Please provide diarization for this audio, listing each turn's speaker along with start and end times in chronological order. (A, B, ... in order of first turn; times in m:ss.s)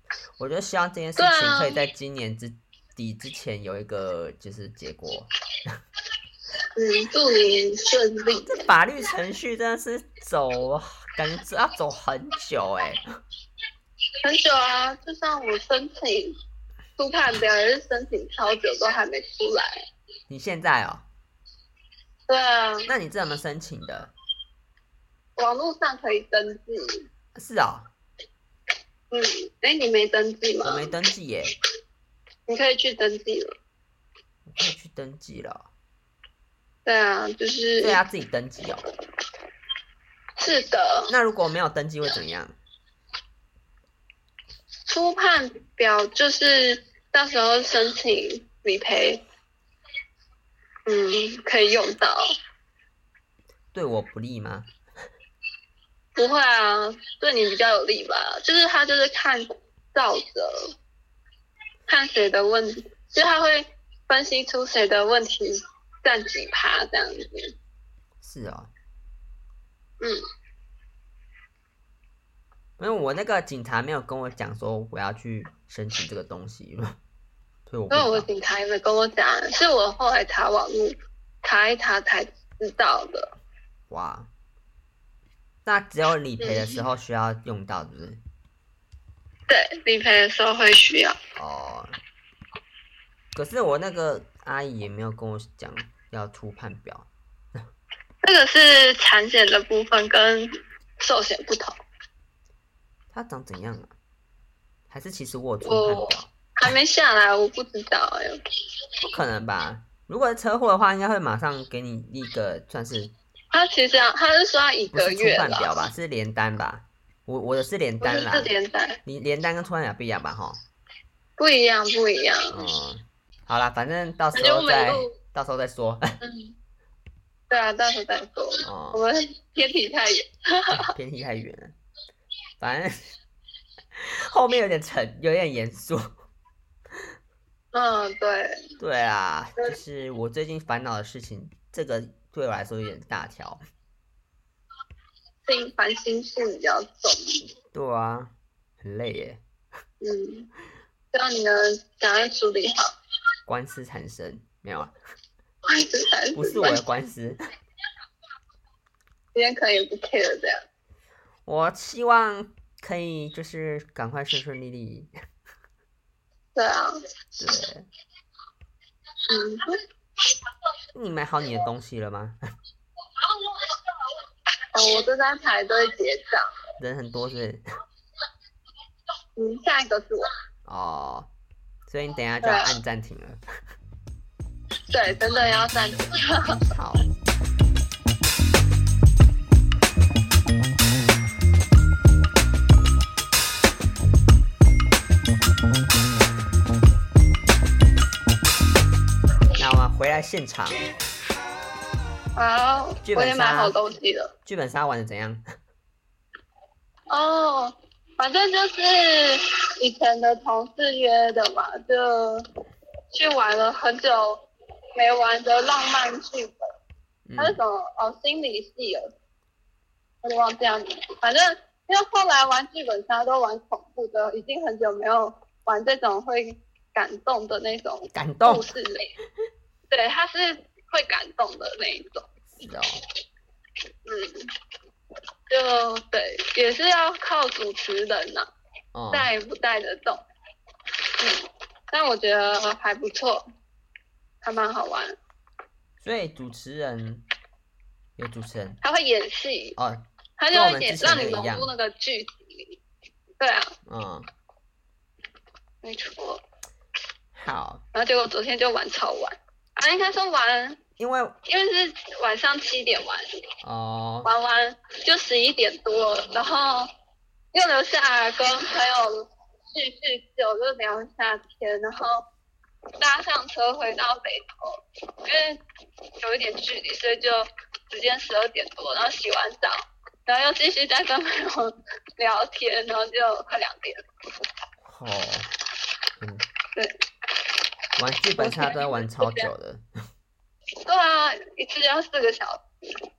0:00.4-0:05.7 A
0:01.2-0:01.8 B
0:06.8-0:08.7 B
0:08.4-0:13.0 A
0:14.2-0:16.3 B
0:17.0-0:19.8 B
0:20.3-0:21.0 A
0:22.3-0:22.9 B
0:22.9-0:24.1 A
0:25.4-0:27.0 B
0:27.3-0:27.9 A
0:29.1-0:31.0 B
0:30.6-0:31.5 A
0:32.5-0:33.5 B
0:34.5-0:35.7 A
0:36.8-0:38.0 B
0:37.8-0:38.8 A
0:40.4-0:41.1 B
0:41.1-0:42.6 A
0:44.9-0:49.2 B
0:50.8-0:52.3 B
0:53.7-0:54.7 A
0:56.2-1:00.7 B
1:01.9-1:07.5 B
1:08.2-1:08.7 A
1:12.8-1:17.0 A
1:17.7-1:18.3 A
1:17.9-1:23.3 B
1:23.9-1:24.3 A
1:25.6-1:28.2 A
1:26.4-1:26.8 B
1:29.5-1:31.2 B
1:31.4-1:32.0 A
1:33.3-1:37.6 A
1:38.2-1:41.8 B
1:43.1-1:43.9 A
1:44.9-1:46.7 A
1:45.6-1:48.4 B
1:49.0-1:53.1 A
1:53.5-1:55.9 B
1:54.9-1:58.5 A
1:58.0-1:59.0 B
1:59.0-2:00.6 A
2:01.4-2:02.6 B
2:02.5-2:06.2 A
2:04.3-2:05.1 B
2:06.2-2:06.5 B
2:07.5-2:10.8 B
2:08.6-2:09.0 A
2:10.7-2:11.8 A
2:12.6-2:13.1 A
2:13.9-2:16.2 A
2:17.7-2:18.6 B
2:18.8-2:23.6 A
2:25.4-2:27.4 B
2:27.7-2:29.4 A
2:30.0-2:30.5 B
2:31.1-2:32.9 B
2:33.5-2:34.9 A
2:35.7-2:36.8 B
2:36.3-2:37.4 A
2:39.3-2:40.6 B
2:41.4-2:45.1 A
2:46.5-2:46.9 B
2:47.4-2:47.9 A
2:49.3-2:49.8 B
2:50.9-2:52.4 A
2:54.7-2:56.5 B
2:56.8-2:57.6 A
2:59.4-3:00.3 B
3:00.6-3:01.3 A
3:01.9-3:03.4 A
3:02.4-3:02.8 B
3:04.9-3:06.6 B
3:06.4-3:07.1 A
3:19.6-3:20.9 A
3:22.4-3:24.3 B
3:23.0-3:23.8 A
3:24.4-3:25.4 A
3:27.1-3:32.4 B
3:33.1-3:34.4 B
3:35.0-3:36.6 B
3:37.2-3:37.6 A
3:37.4-3:39.1 B
3:40.2-3:49.1 B
3:48.1-3:48.7 A
3:49.9-3:52.3 B
3:52.5-3:53.0 A
3:54.0-3:54.5 B
3:55.5-3:58.5 B
3:58.9-3:59.3 A
3:59.1-4:00.2 B
4:01.2-4:03.4 B
4:04.4-4:05.2 B
4:06.0-4:07.2 A
4:08.2-4:08.8 A
4:08.8-4:09.8 B
4:09.8-4:11.7 A
4:10.4-4:12.8 B
4:13.4-4:13.7 B
4:13.8-4:14.3 A
4:15.8-4:16.4 B
4:17.3-4:17.8 A
4:17.9-4:20.8 B
4:21.0-4:21.3 A
4:21.5-4:23.3 B
4:23.6-4:24.3 A
4:24.2-4:26.9 B
4:27.5-4:32.2 B
4:33.0-4:35.6 B
4:36.2-4:44.0 B
4:44.8-4:45.5 A
4:46.2-4:46.4 A
4:48.0-4:49.8 A
4:48.4-4:49.5 B
4:50.8-4:52.6 B